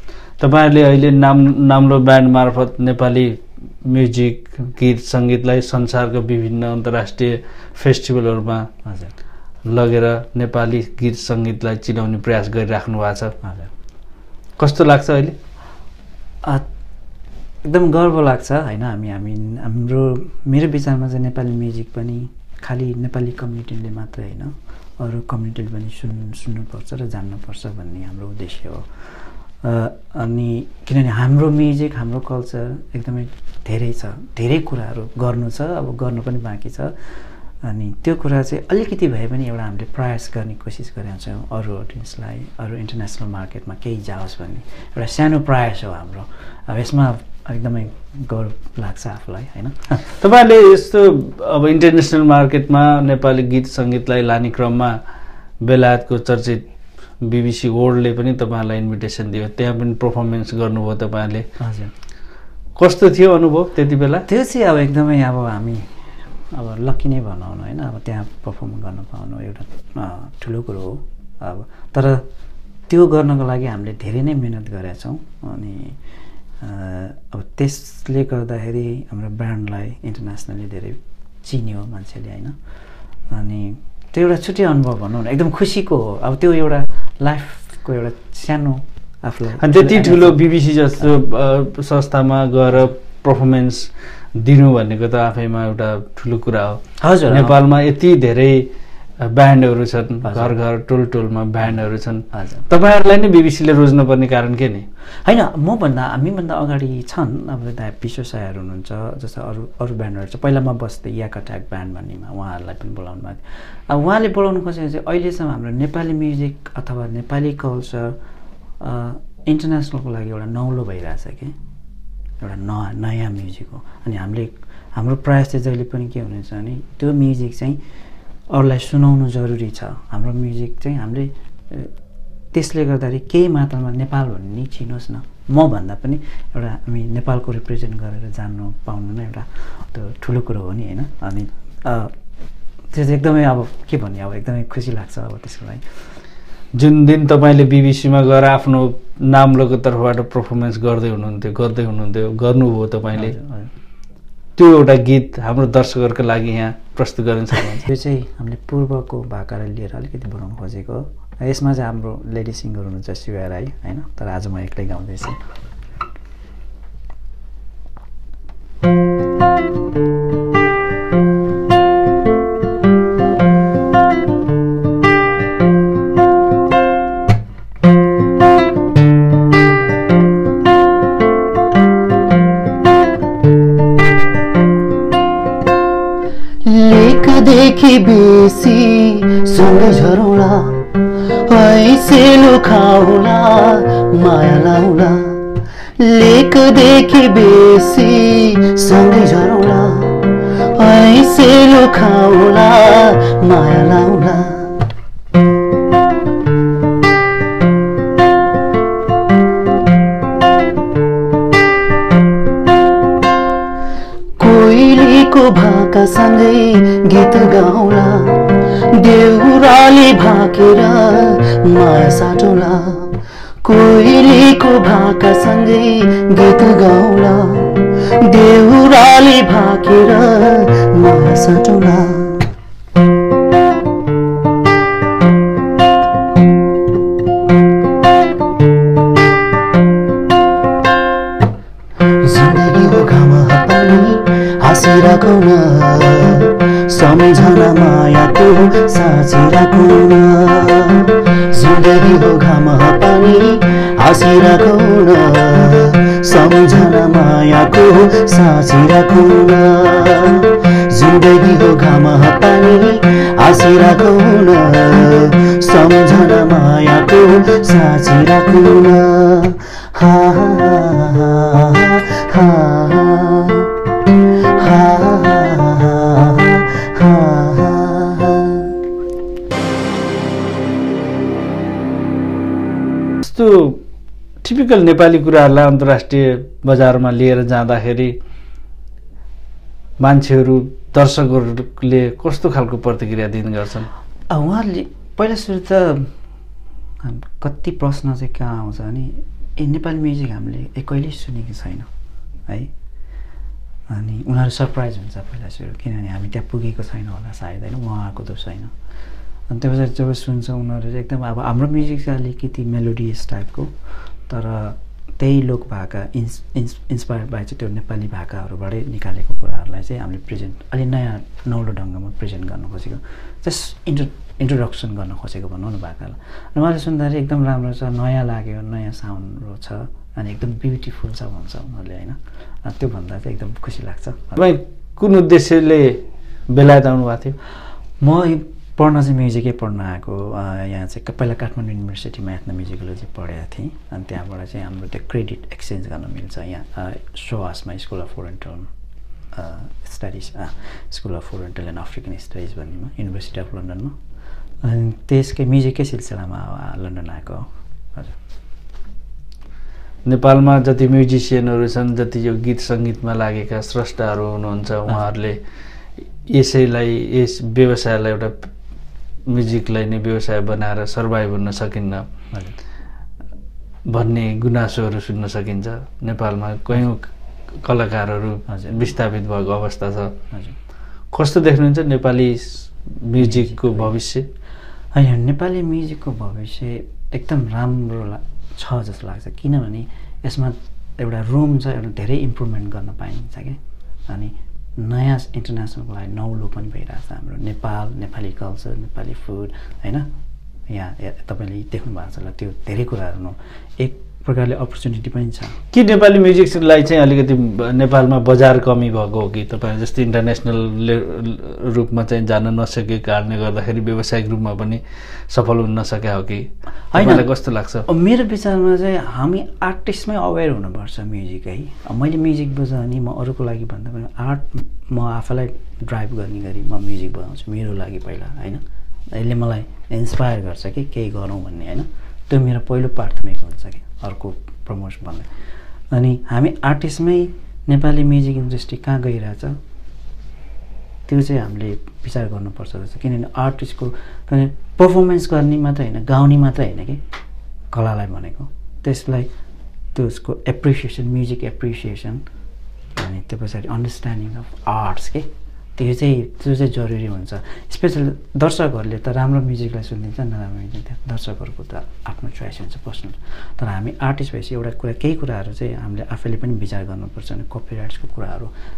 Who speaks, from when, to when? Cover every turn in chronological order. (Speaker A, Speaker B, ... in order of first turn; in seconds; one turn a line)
Speaker A: 0.4-8.7
Speaker B: 8.8-9.1
Speaker A: 9.7-13.3
Speaker B: 13.4-13.7
Speaker A: 14.6-15.3
Speaker B: 17.6-50.1
Speaker A: 50.2-55.0
Speaker A: 55.6-56.6
Speaker A: 57.2-61.5
Speaker B: 61.6-61.9
Speaker A: 62.8-64.2
Speaker B: 64.2-65.9
Speaker B: 66.5-72.2
Speaker B: 72.9-76.0
Speaker B: 76.6-82.5
Speaker B: 83.3-90.4
Speaker A: 89.6-104.8
Speaker B: 97.0-97.6
Speaker B: 100.2-100.5
Speaker B: 102.3-102.6
Speaker B: 105.2-118.2
Speaker B: 118.8-121.5
Speaker B: 122.4-127.8
Speaker B: 128.5-131.9
Speaker B: 132.5-142.1
Speaker B: 142.9-145.8
Speaker A: 146.7-153.3
Speaker B: 153.1-153.7
Speaker A: 154.6-157.8
Speaker B: 157.8-165.4
Speaker C: 186.6-190.9
Speaker C: 191.4-195.4
Speaker C: 196.0-204.8
Speaker C: 214.4-232.4
Speaker C: 242.1-278.8
Speaker A: 283.2-283.8
Speaker A: 284.4-288.1
Speaker A: 290.0-293.9
Speaker B: 294.3-296.1
Speaker B: 297.0-301.9
Speaker B: 303.9-308.7
Speaker B: 309.5-313.7
Speaker B: 314.3-334.4
Speaker A: 334.4-337.4
Speaker B: 338.0-348.7
Speaker B: 349.3-353.9
Speaker B: 354.6-358.1
Speaker A: 360.0-365.4
Speaker A: 366.2-368.5
Speaker A: 369.3-372.1
Speaker A: 373.9-380.2
Speaker B: 378.5-378.8
Speaker B: 380.3-380.6
Speaker A: 381.1-384.2
Speaker B: 383.2-383.9
Speaker B: 384.9-400.1
Speaker B: 400.7-405.6
Speaker A: 405.7-417.9
Speaker B: 416.9-417.3
Speaker B: 417.8-428.6
Speaker B: 429.1-435.3
Speaker B: 435.9-439.6
Speaker B: 441.1-447.0
Speaker B: 447.7-449.3
Speaker B: 449.9-452.2
Speaker B: 452.9-468.5